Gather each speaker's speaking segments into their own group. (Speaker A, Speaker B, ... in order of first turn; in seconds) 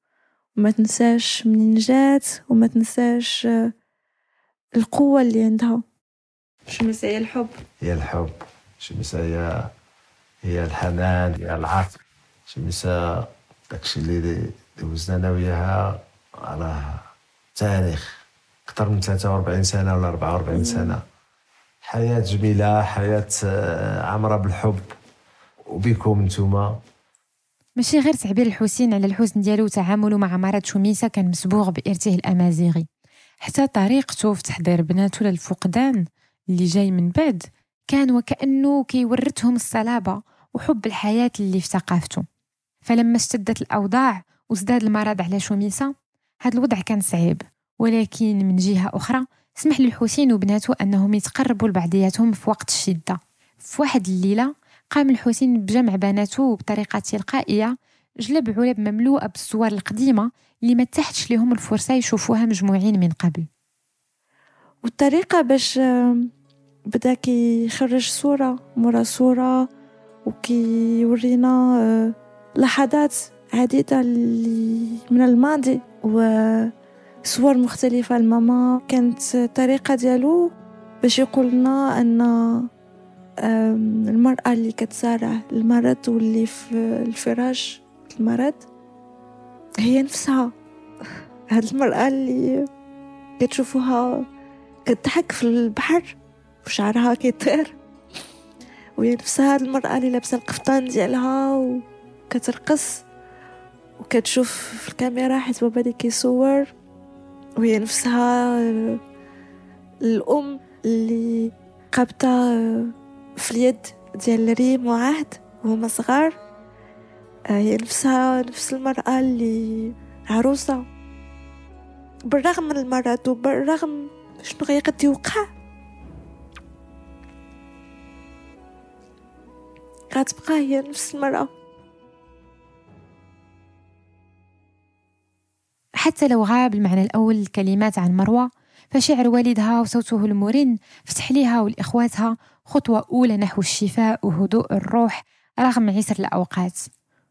Speaker A: 0.6-3.7, 4.8-5.8, 6.7-7.5, 20.6-21.0, 64.8-66.3, 66.9-69.7, 70.2-76.7, 77.2-82.7, 83.4-88.7, 89.8-90.5, 91.5-92.7, 93.4-94.3, 94.9-97.8, 99.0-103.0, 104.0-106.7, 107.6-109.0, 110.0-116.4, 117.5-120.9, 122.3-125.5, 130.1-131.5
Speaker B: 7.8-9.7, 10.4-17.0, 17.6-21.0, 21.8-24.9, 25.7-26.8
Speaker C: 27.8-32.9, 33.4-42.2, 42.9-45.9, 46.5-63.5, 136.0-146.9